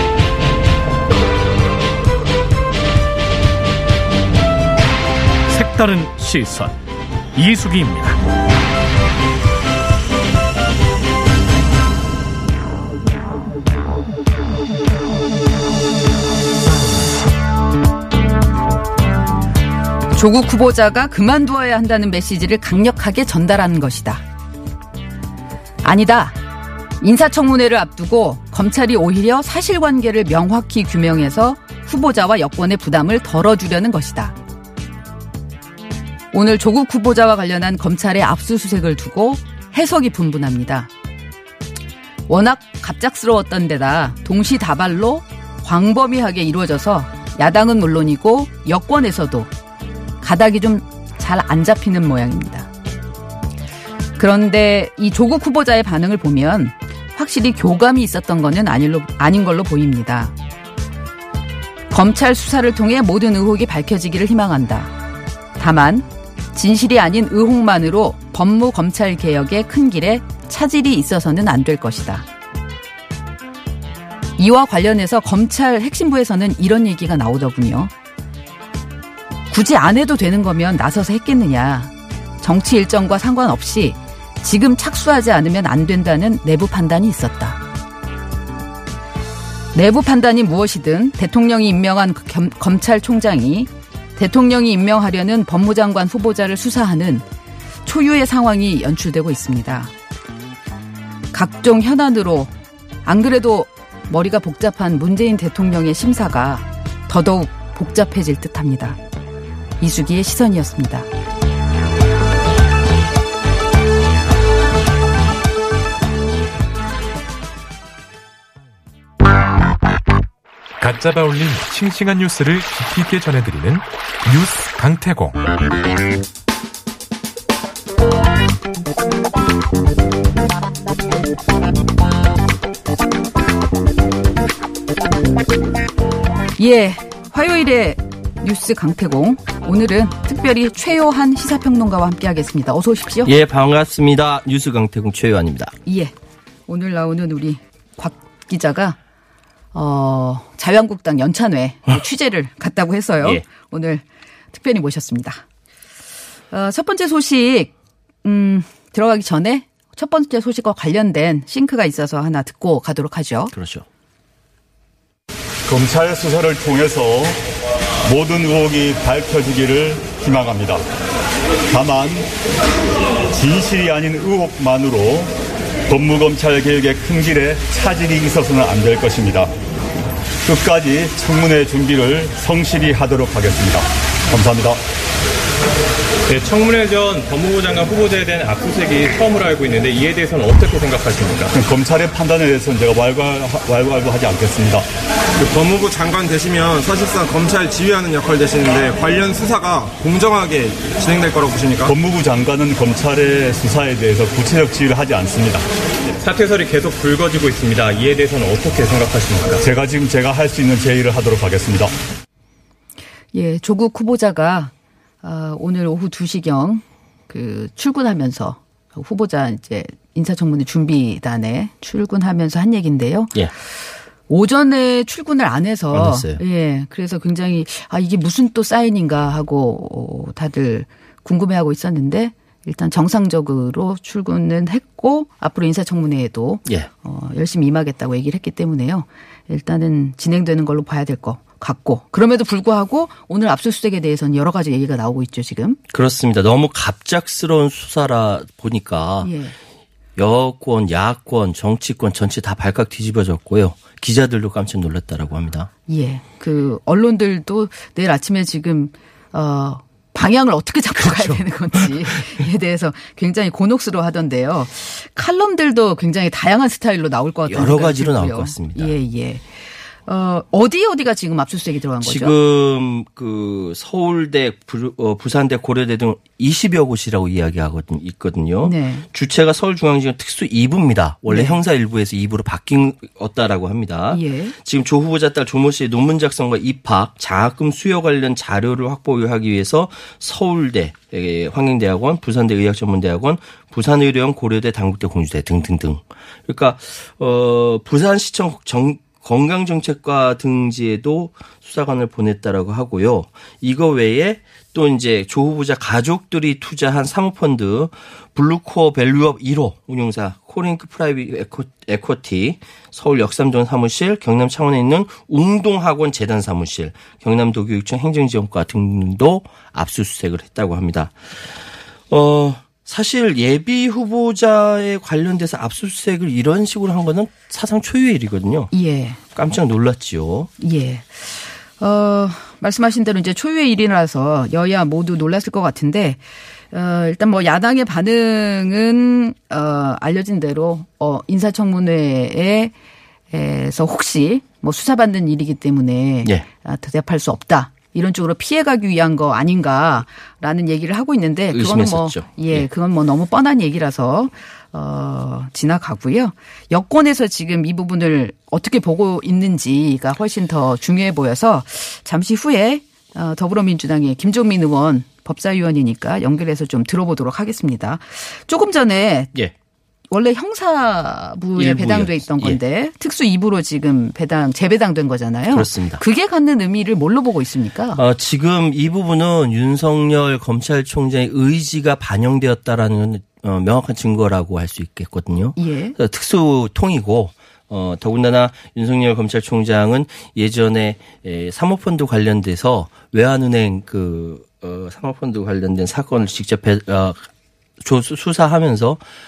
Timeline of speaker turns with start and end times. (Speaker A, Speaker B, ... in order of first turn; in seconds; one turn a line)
Speaker A: 5.5-6.8
Speaker A: 7.3-8.2
Speaker B: 20.1-24.2
Speaker B: 25.8-26.4
Speaker B: 27.0-34.4
Speaker B: 36.3-40.9
Speaker B: 42.3-49.5
Speaker B: 50.2-52.7
Speaker B: 54.2-60.3
Speaker B: 61.9-64.9
Speaker B: 65.6-72.2
Speaker B: 74.4-77.9
Speaker B: 79.5-87.6
Speaker B: 89.7-97.3
Speaker B: 97.9-99.9
Speaker B: 101.3-102.5
Speaker B: 103.0-109.0
Speaker B: 109.8-111.1
Speaker C: 120.8-125.5
Speaker B: 136.6-143.3
Speaker D: 143.2-145.8
Speaker B: 145.9-146.1
Speaker B: 146.7-149.0
Speaker B: 149.7-155.4
Speaker B: 156.5-157.7
Speaker B: 158.2-163.5
Speaker D: 163.5-163.9
Speaker E: 165.7-167.4
Speaker E: 168.1-170.8
Speaker E: 171.7-172.3
Speaker E: 173.3-175.3
Speaker E: 175.9-179.5
Speaker E: 180.4-184.8
Speaker F: 186.3-191.6
Speaker E: 191.5-194.8
Speaker G: 195.4-201.9
Speaker E: 201.9-205.7
Speaker F: 206.2-209.7
Speaker E: 209.6-211.9
Speaker B: 213.3-214.7
Speaker B: 215.2-245.8
Speaker D: 225.9-226.4
Speaker D: 245.9-249.3
Speaker B: 249.2-249.6
Speaker D: 250.2-255.7
Speaker B: 255.9-272.4
Speaker D: 260.9-262.2
Speaker D: 267.5-269.0
Speaker D: 272.0-321.5
Speaker B: 278.6-279.1
Speaker B: 281.3-281.6
Speaker B: 284.1-284.6
Speaker D: 322.1-328.7
Speaker B: 328.7-329.2
Speaker D: 329.4-330.5
Speaker B: 330.6-342.7
Speaker B: 343.3-369.3
Speaker D: 351.5-352.7
Speaker B: 370.1-378.0
Speaker D: 371.6-372.6
Speaker D: 375.5-376.0
Speaker D: 378.0-397.3
Speaker B: 385.6-385.9
Speaker D: 397.8-399.0